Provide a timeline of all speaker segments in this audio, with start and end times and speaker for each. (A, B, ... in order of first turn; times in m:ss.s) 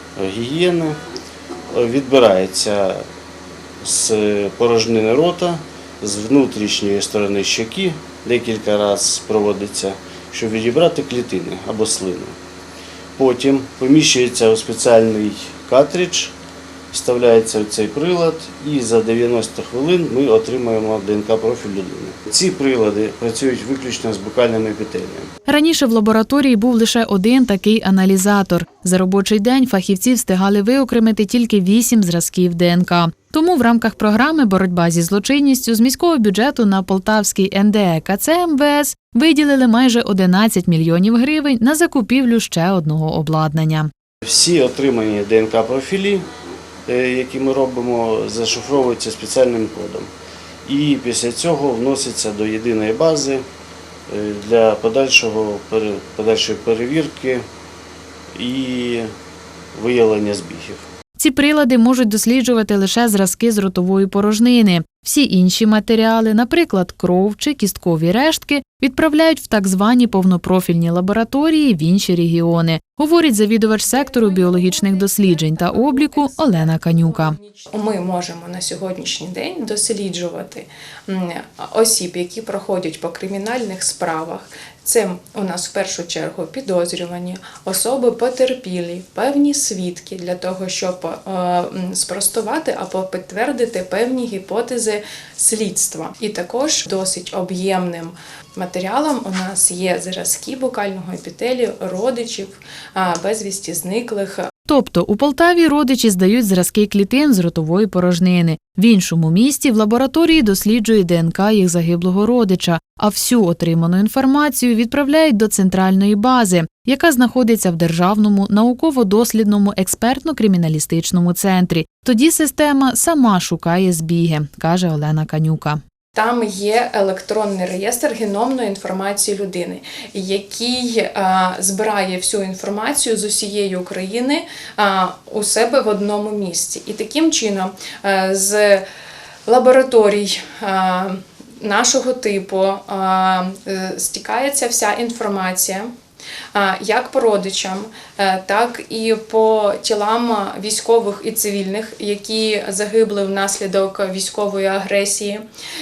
0:00.2-0:01.0 A
0:01.7-0:03.1 A
0:03.8-0:12.4 A
0:13.2-0:16.3 A
0:16.9-0:25.3 A
0:25.5-0:43.9 B
0:44.2-0:46.2 A
0:46.9-0:50.1 A
0:50.7-0:53.4 A
0:54.1-0:57.4 A
0:58.4-0:59.1 A
0:59.8-1:00.8 A
1:01.2-1:17.4 B
1:17.7-1:44.5 C
1:44.7-2:05.8 B
2:06.2-2:18.8 C
2:19.5-2:25.9 C
2:26.5-2:35.4 C